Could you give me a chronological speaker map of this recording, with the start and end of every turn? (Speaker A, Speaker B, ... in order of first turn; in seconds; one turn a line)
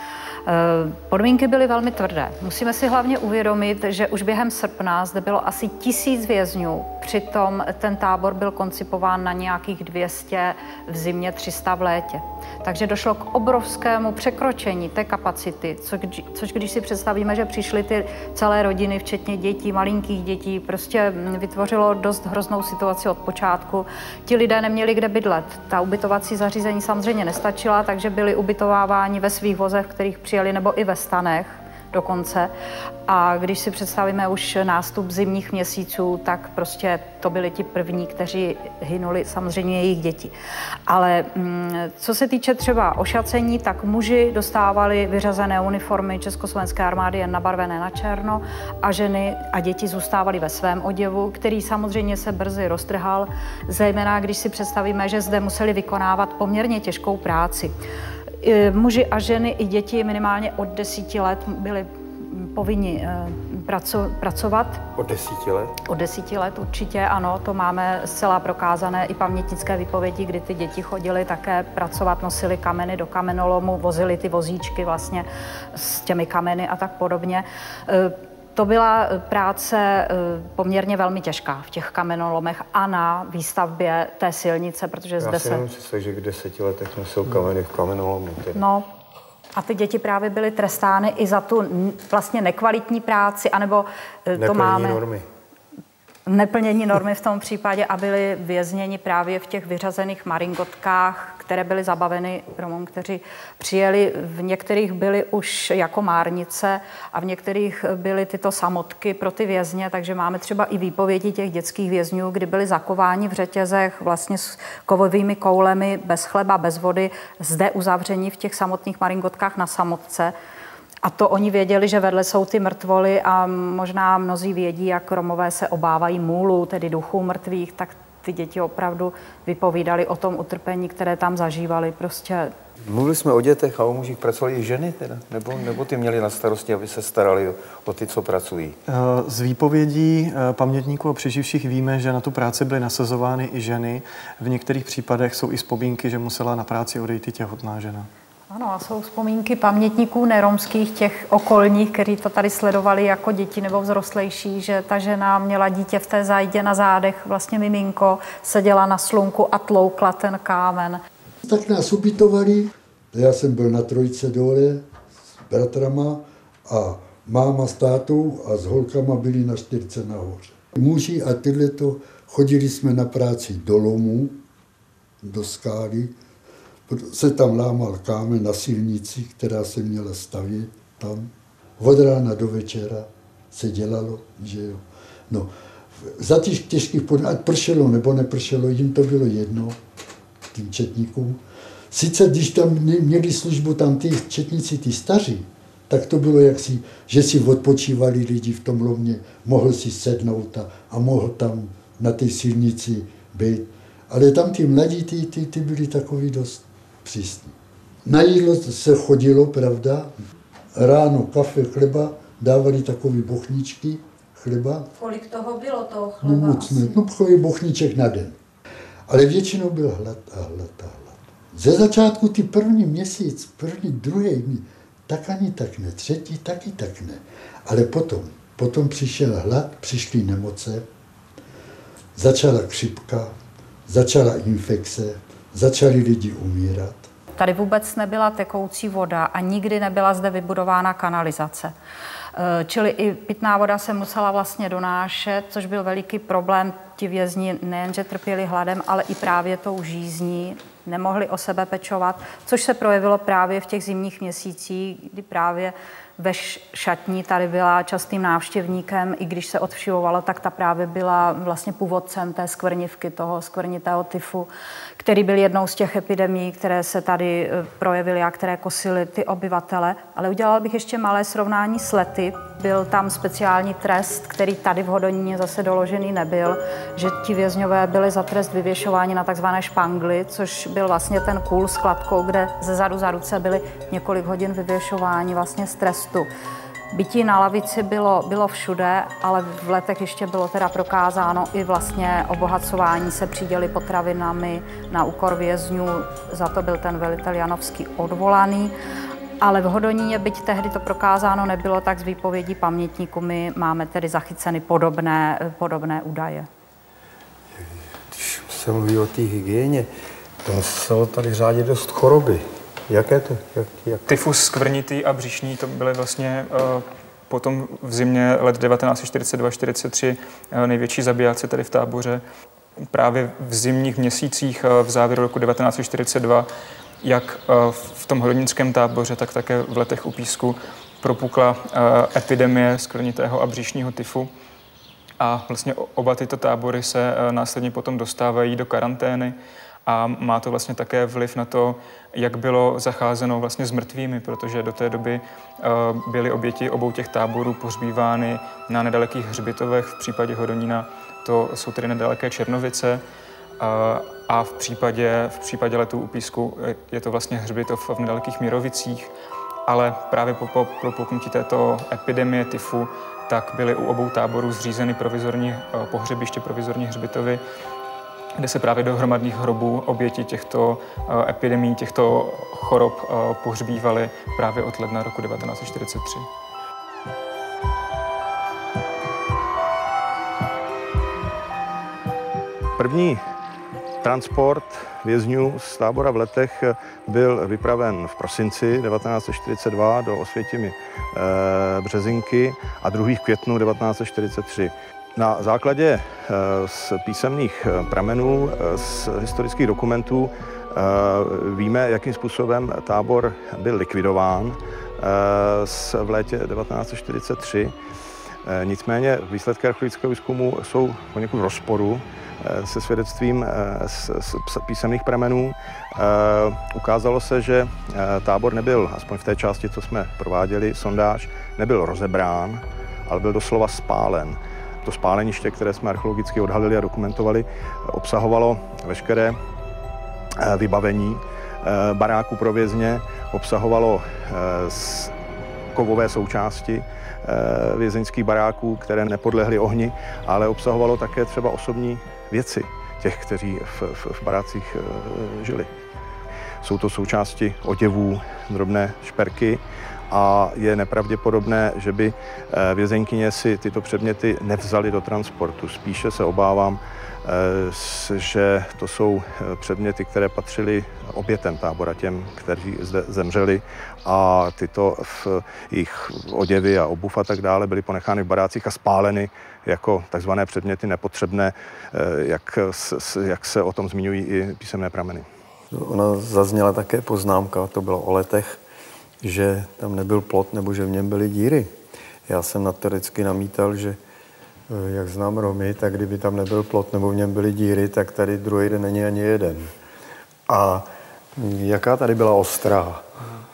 Speaker A: 0.5-32.5
Speaker A: 33.1-40.3
Speaker A: 40.9-57.7
Speaker A: 58.4-64.8
Speaker B: 65.0-65.8
Speaker A: 65.9-85.6
Speaker B: 85.2-88.6
Speaker A: 88.5-88.9
Speaker A: 89.5-95.0
Speaker B: 94.3-95.2
Speaker A: 96.3-120.3
Speaker A: 121.0-132.5
Speaker B: 132.9-138.8
Speaker C: 138.9-148.1
Speaker A: 148.5-161.0
Speaker D: 161.5-164.9
Speaker D: 165.5-174.4
Speaker D: 175.2-176.1
Speaker D: 176.9-185.5
Speaker D: 186.0-189.8
Speaker D: 190.5-210.1
Speaker D: 210.8-214.9
Speaker A: 215.0-217.0
Speaker D: 216.2-218.4
Speaker D: 219.1-230.9
Speaker D: 232.2-233.3
Speaker D: 233.9-237.1
Speaker A: 237.4-241.7
Speaker A: 242.4-286.3
Speaker A: 286.9-298.7
Speaker A: 299.4-306.5
Speaker B: 307.6-309.9
Speaker B: 310.4-314.1
Speaker E: 314.1-322.2
Speaker E: 322.9-326.5
Speaker E: 327.0-334.3
Speaker E: 335.2-339.4
Speaker E: 339.9-353.0
Speaker E: 353.6-359.1
Speaker E: 359.7-367.4
Speaker E: 368.4-376.3
Speaker F: 382.8-383.2
Speaker F: 384.0-407.8
Speaker F: 408.4-429.4
Speaker F: 430.4-435.1
Speaker F: 435.7-445.7
Speaker F: 446.6-475.3
Speaker B: 475.7-478.6
Speaker B: 479.2-481.7
Speaker B: 482.3-484.0
Speaker B: 484.7-489.7
Speaker B: 490.5-493.1